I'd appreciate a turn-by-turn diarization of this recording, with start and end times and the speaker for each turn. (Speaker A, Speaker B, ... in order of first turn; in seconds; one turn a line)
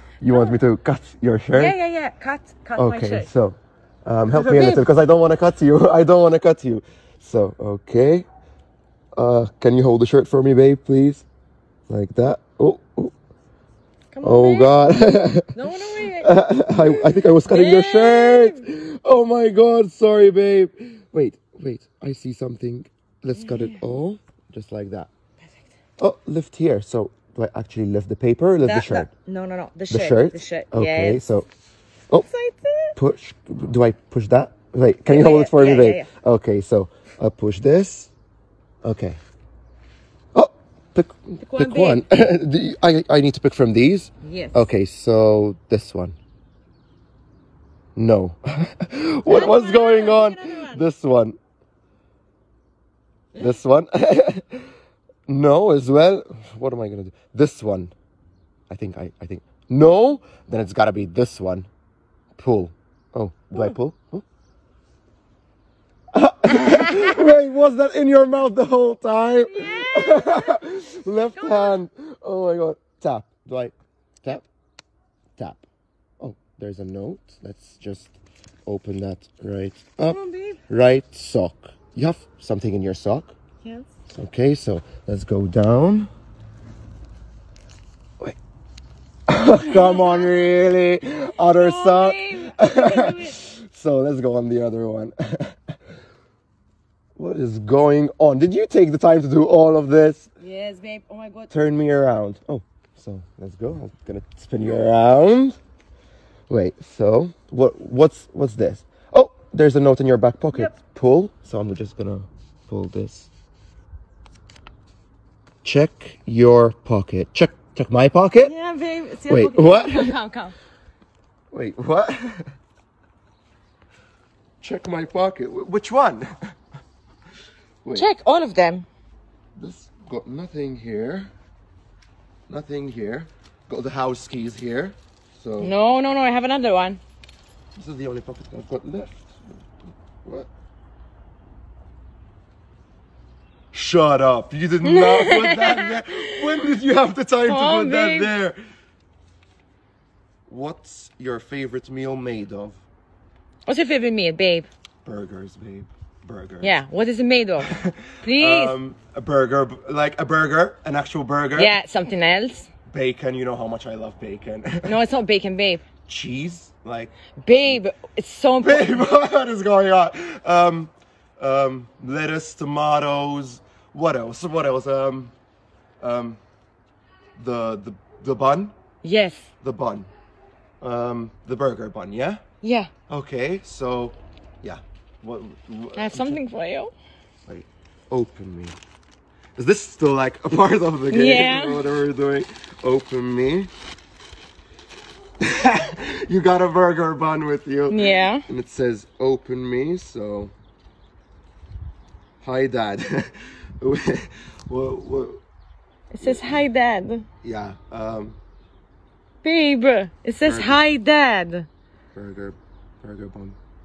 Speaker A: 0.2-1.8
Speaker B: 0.3-0.6
Speaker B: 1.5-3.3
Speaker A: 2.8-8.3
Speaker B: 4.3-4.8
Speaker A: 9.2-11.3
Speaker A: 11.9-13.1
Speaker B: 14.1-16.3
Speaker A: 14.2-25.1
Speaker B: 17.2-18.6
Speaker B: 23.4-23.8
Speaker A: 26.0-29.1
Speaker B: 28.6-31.2
Speaker A: 29.9-31.5
Speaker B: 32.2-33.0
Speaker A: 33.0-38.1
Speaker B: 35.1-36.1
Speaker A: 38.8-39.2
Speaker A: 40.3-46.2
Speaker B: 41.4-42.0
Speaker B: 44.2-44.7
Speaker A: 48.0-51.4
Speaker B: 49.3-50.8
Speaker A: 53.4-54.7
Speaker A: 55.3-57.9
Speaker A: 58.7-61.7
Speaker A: 62.4-64.2
Speaker A: 66.1-74.5
Speaker B: 66.7-67.1
Speaker B: 69.4-70.6
Speaker B: 71.3-71.8
Speaker A: 75.4-75.7
Speaker A: 76.2-83.3
Speaker B: 80.1-80.6
Speaker B: 83.6-83.9
Speaker A: 84.1-86.1
Speaker A: 89.3-95.7
Speaker B: 89.6-90.3
Speaker B: 91.4-93.4
Speaker A: 97.2-100.3
Speaker B: 100.4-101.5
Speaker A: 101.5-105.6
Speaker A: 106.5-113.3
Speaker A: 115.6-118.5
Speaker B: 118.4-120.5
Speaker A: 119.3-120.2
Speaker A: 121.5-122.5
Speaker A: 124.6-126.5
Speaker B: 127.9-128.9
Speaker A: 129.6-131.3
Speaker A: 132.5-135.7
Speaker B: 135.6-137.0
Speaker A: 137.8-139.4
Speaker A: 140.2-140.5
Speaker A: 143.7-148.6
Speaker B: 144.8-146.6
Speaker B: 147.5-148.3
Speaker A: 150.5-152.8
Speaker B: 153.7-154.7
Speaker A: 155.1-156.8
Speaker B: 156.6-158.8
Speaker A: 157.6-161.8
Speaker B: 161.6-162.7
Speaker A: 162.9-164.9
Speaker B: 164.8-165.8
Speaker A: 166.1-167.8
Speaker B: 167.4-169.1
Speaker A: 168.6-175.3
Speaker A: 176.0-176.4
Speaker A: 177.4-178.8
Speaker B: 179.0-179.5
Speaker A: 179.6-180.1
Speaker A: 180.8-182.4
Speaker B: 182.6-182.9
Speaker A: 183.1-186.4
Speaker B: 186.0-186.9
Speaker A: 187.5-188.8
Speaker A: 189.6-193.7
Speaker B: 191.1-191.8
Speaker A: 195.4-200.5
Speaker B: 197.9-198.4
Speaker A: 202.4-205.4
Speaker B: 206.1-207.3
Speaker A: 206.2-206.6
Speaker A: 207.4-208.4
Speaker B: 209.4-211.7
Speaker A: 210.4-210.8
Speaker A: 212.1-213.6